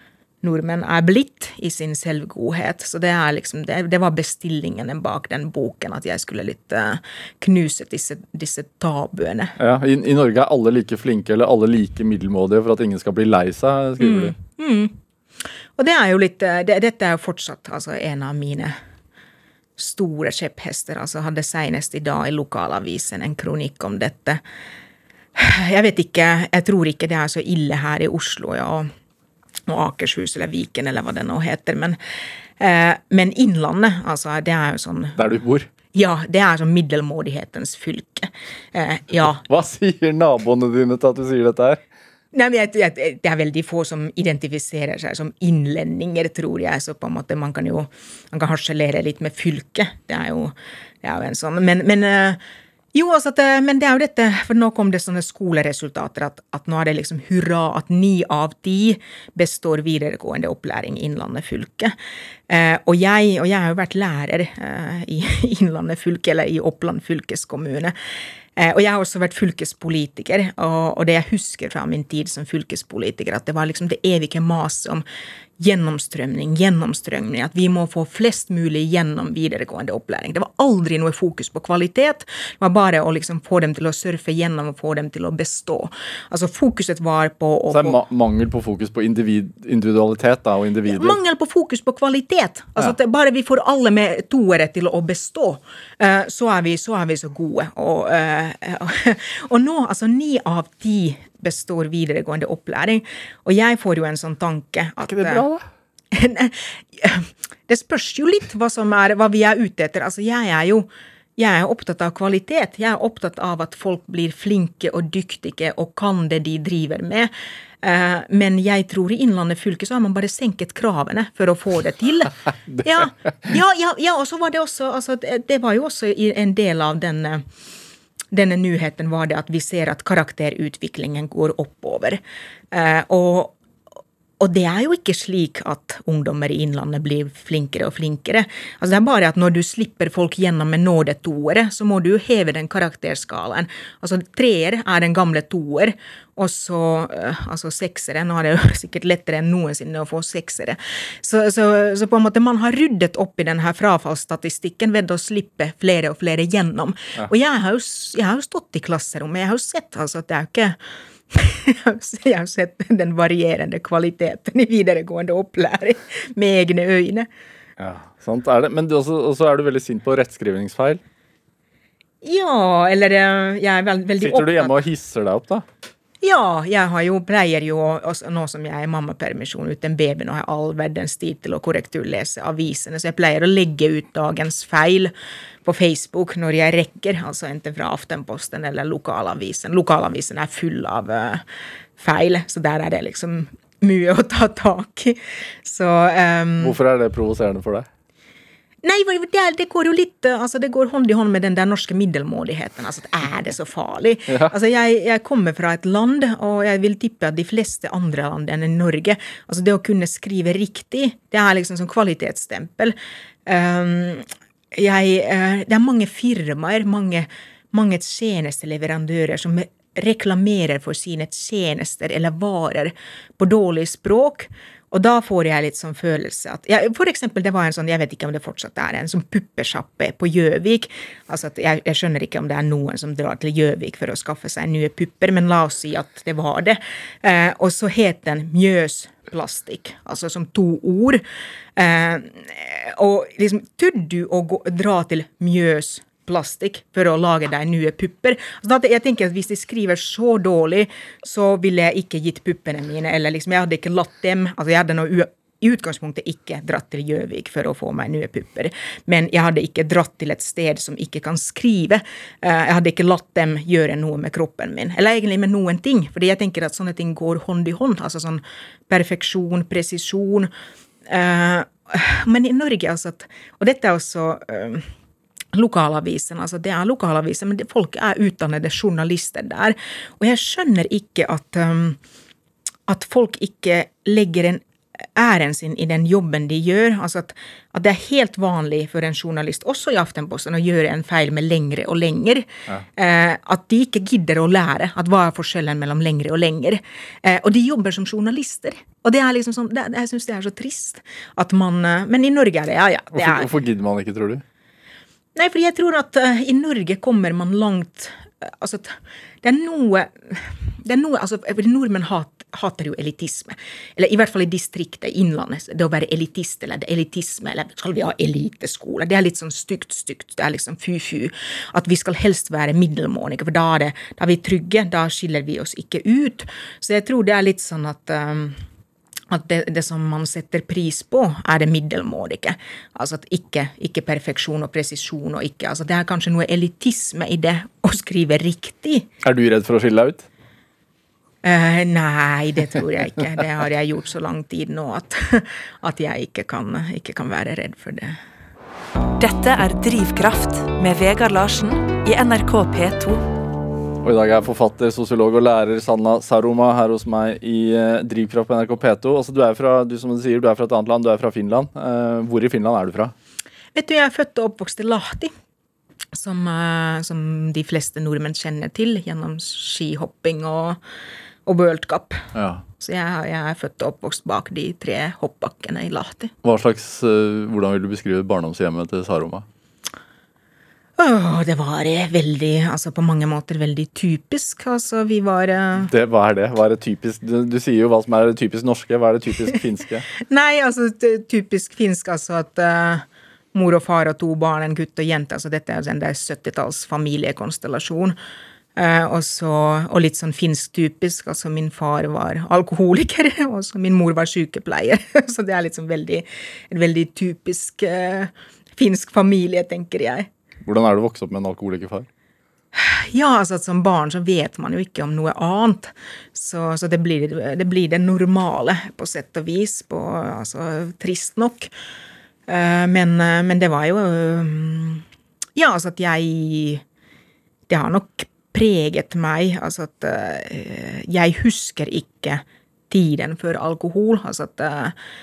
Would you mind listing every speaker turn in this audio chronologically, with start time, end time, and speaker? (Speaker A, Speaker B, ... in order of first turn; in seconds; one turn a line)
Speaker A: 0.4-9.6
Speaker B: 9.6-14.3
Speaker A: 14.0-14.9
Speaker A: 15.8-18.7
Speaker A: 19.8-24.4
Speaker A: 25.3-28.9
Speaker A: 29.7-32.0
Speaker A: 32.6-35.4
Speaker B: 35.2-35.7
Speaker A: 35.9-39.4
Speaker B: 39.2-41.8
Speaker A: 42.3-52.4
Speaker A: 52.9-61.9
Speaker A: 62.5-67.9
Speaker A: 68.5-75.0
Speaker A: 75.6-88.0
Speaker B: 87.7-91.2
Speaker A: 90.9-105.5
Speaker B: 105.1-105.6
Speaker A: 106.1-117.3
Speaker A: 117.8-127.4
Speaker A: 128.3-132.2
Speaker A: 132.7-133.6
Speaker A: 134.4-160.8
Speaker A: 161.3-167.3
Speaker B: 167.8-171.0
Speaker A: 172.2-174.8
Speaker B: 174.2-175.6
Speaker A: 176.2-185.1
Speaker A: 185.6-191.4
Speaker A: 192.0-196.8
Speaker B: 196.6-197.9
Speaker A: 198.8-212.9
Speaker A: 213.4-241.2
Speaker A: 241.8-270.5
Speaker A: 271.1-274.9
Speaker A: 275.5-282.0
Speaker A: 282.9-284.6
Speaker A: 285.1-303.5
Speaker B: 303.1-304.4
Speaker A: 305.4-328.6
Speaker A: 329.3-339.1
Speaker B: 339.2-340.2
Speaker A: 341.4-348.2
Speaker C: 349.2-353.3
Speaker B: 354.0-363.1
Speaker A: 363.7-365.3
Speaker A: 366.1-370.8
Speaker A: 371.4-376.3
Speaker B: 372.3-372.6
Speaker B: 376.4-379.4
Speaker A: 381.0-385.9
Speaker B: 385.8-390.1
Speaker A: 390.2-398.1
Speaker A: 398.8-410.3
Speaker B: 410.6-412.1
Speaker A: 412.7-421.7
Speaker A: 422.5-425.0
Speaker A: 425.6-426.8
Speaker A: 427.7-434.9